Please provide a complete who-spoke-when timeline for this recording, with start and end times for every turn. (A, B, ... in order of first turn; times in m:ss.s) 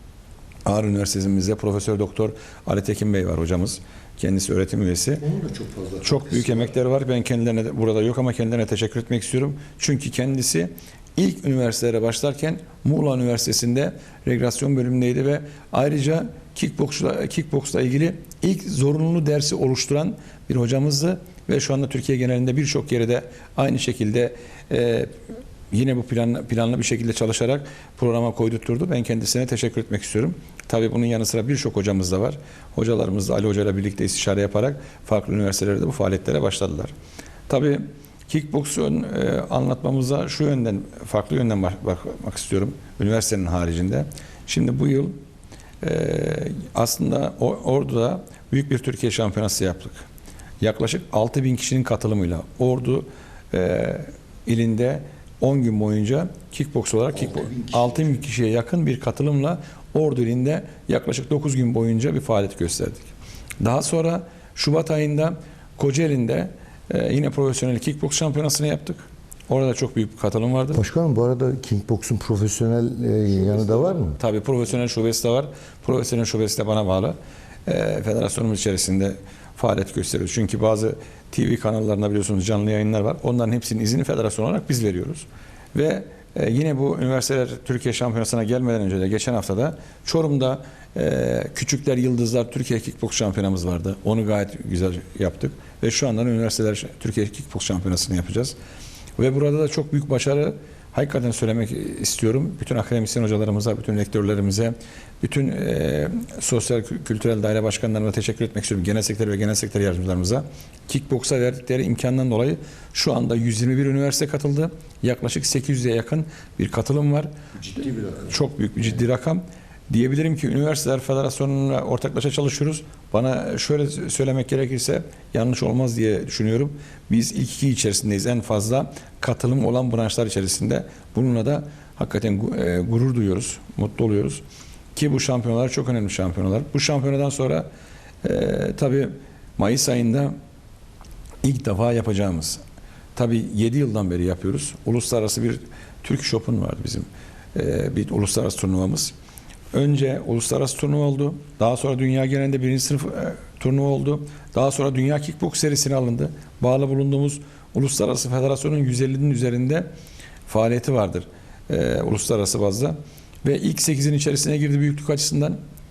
0:00.6-0:05.2 A
0:05.2-0:06.7 B
0:06.0-0:36.9 A
0:37.5-0:45.2 A
0:45.8-0:50.1 A
0:50.6-1:10.8 A
0:57.1-0:58.2 B
1:10.7-1:14.2 B
1:14.2-1:38.5 A
1:39.2-1:57.3 A
1:57.6-1:58.3 B
1:58.2-2:14.4 A
2:14.9-2:17.7 A
2:18.2-2:20.3 A
2:21.4-2:22.6 A
2:23.2-2:29.1 A
2:29.7-2:39.9 A
2:40.5-2:45.6 A